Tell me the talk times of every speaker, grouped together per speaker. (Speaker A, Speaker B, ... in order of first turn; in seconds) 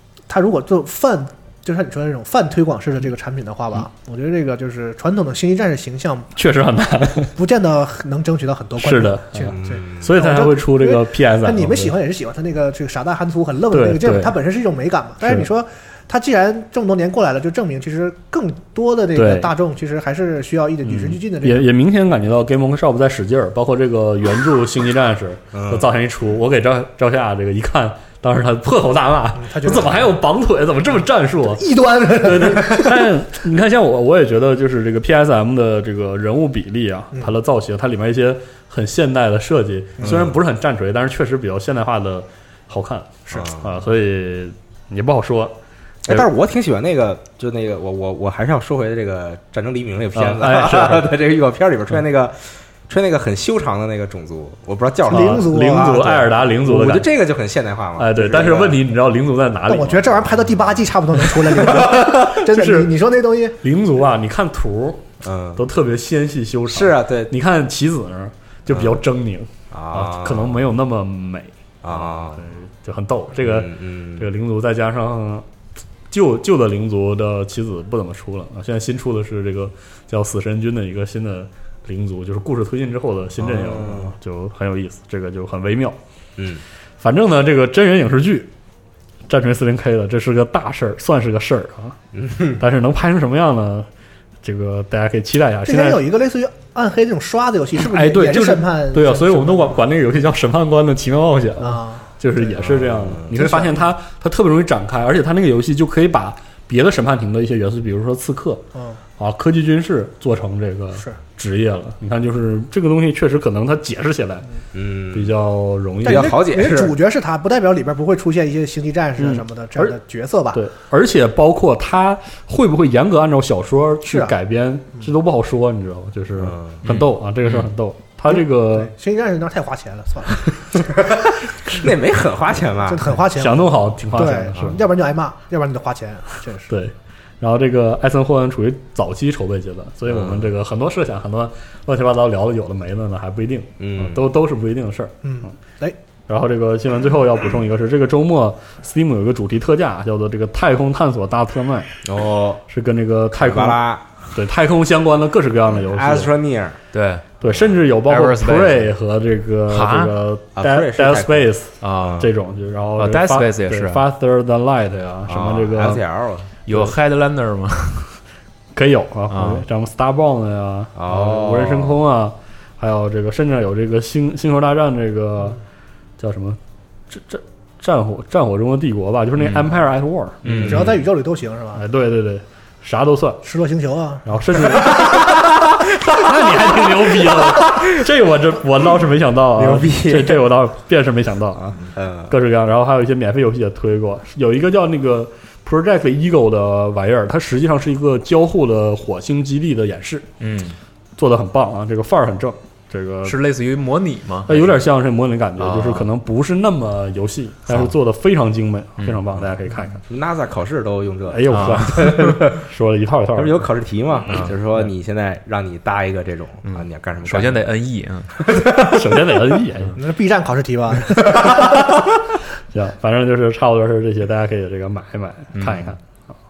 Speaker A: 0.3-6.3, 7.4-21.7, 29.4-30.1, 31.6-33.1, 55.1-56.3, 59.7-63.6, 95.7-99.8, 101.6-102.1, 103.3-103.8, 108.8-109.0, 116.0-120.6, 124.0-124.3, 128.3-131.1, 132.9-136.7, 145.2-146.0, 180.6-181.8, 183.4-184.9, 220.0-221.7
Speaker B: 6.3-7.3, 8.8-12.0, 13.7-14.3, 15.2-15.5, 19.1-19.5, 20.8-45.6, 50.1-51.1, 55.1-57.1, 58.0-60.1, 61.6-62.9, 63.6-75.5, 76.1-86.0, 87.0-88.5, 89.3-92.0, 92.5-93.9, 94.4-96.0, 97.8-108.6, 109.2-114.5, 115.1-116.4, 119.2-120.0, 120.5-128.9, 133.3-134.8, 136.7-145.5, 146.3-151.9, 152.7-153.8, 154.3-156.3, 157.4-166.0, 168.8-175.6, 176.2-176.6, 177.1-180.8, 181.8-183.4, 184.3-185.4, 186.0-200.3, 201.2-203.4, 204.5-210.0, 211.3-213.7, 218.8-220.0, 222.7-226.0
Speaker C: 9.5-10.2, 25.5-25.9, 40.0-40.4, 43.3-43.7, 46.0-58.8, 60.3-60.8, 65.2-65.6, 66.7-67.3, 68.7-69.0, 69.7-70.6, 71.8-72.5, 73.4-74.3, 83.4-84.1, 86.4-86.6, 92.1-92.6, 102.6-103.4, 114.7-115.3, 116.0-117.0, 126.4-126.8, 131.7-133.1, 140.1-140.5, 143.8-144.2, 152.0-152.6, 153.3-154.2, 155.7-156.8, 160.6-162.3, 165.3-166.5, 171.0-172.0, 180.5-180.8, 186.9-187.8, 189.6-190.4, 191.9-192.3, 210.1-212.6, 213.3-217.7, 218.5-218.9
Speaker D: 126.8-127.7, 156.9-157.2, 158.1-158.9, 159.7-160.2, 161.8-162.2, 163.0-164.0, 166.7-168.2, 169.3-169.6, 179.4-179.7, 180.4-181.0, 200.4-200.8, 203.2-204.8, 205.6-206.1, 211.5-212.4, 214.3-214.5, 216.7-218.4, 225.6-225.9